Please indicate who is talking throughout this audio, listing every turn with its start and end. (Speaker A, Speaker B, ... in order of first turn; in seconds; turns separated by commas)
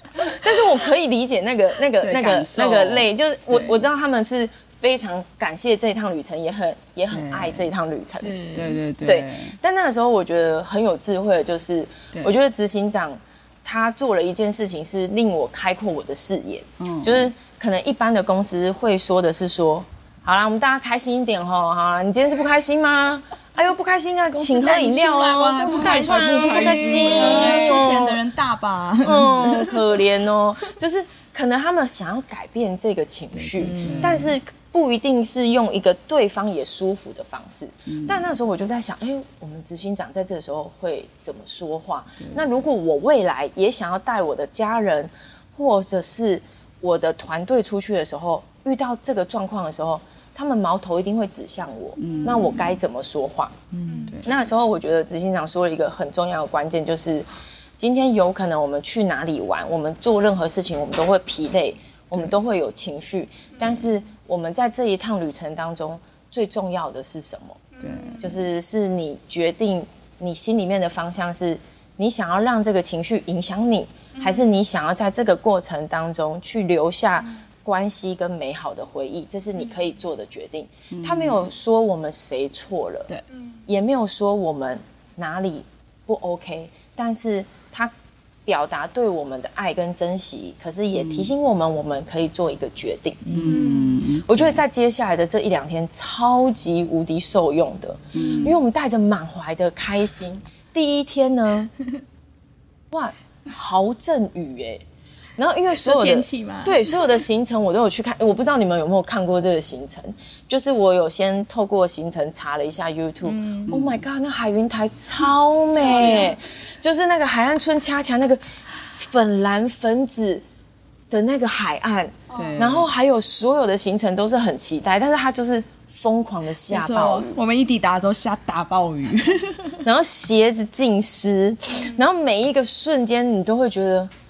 Speaker A: 0.2-8.3, Speaker B: 2.0-2.5, Speaker C: 2.0-3.8, Speaker C: 7.1-7.7, Speaker B: 8.2-8.8, Speaker C: 8.5-9.6, Speaker A: 9.0-28.2, Speaker C: 16.8-17.3, Speaker B: 24.4-29.8, Speaker C: 25.5-28.1, Speaker A: 29.0-53.5, Speaker B: 33.4-34.3, Speaker C: 33.7-34.2, Speaker C: 37.9-38.3, Speaker C: 52.0-52.6, Speaker A: 54.2-57.3, Speaker A: 57.8-67.6, Speaker C: 67.8-68.2, Speaker A: 68.2-83.1, Speaker C: 80.9-81.4, Speaker A: 83.7-87.9, Speaker A: 88.5-93.2, Speaker C: 91.0-91.3, Speaker B: 93.2-93.8, Speaker C: 93.3-94.5, Speaker A: 94.2-101.7, Speaker C: 98.1-98.6, Speaker A: 102.9-104.8, Speaker A: 105.4-120.4, Speaker B: 105.7-106.8, Speaker B: 113.2-113.7, Speaker C: 113.7-114.0, Speaker A: 121.1-127.4, Speaker C: 122.3-122.9, Speaker B: 126.7-129.8, Speaker A: 129.8-134.1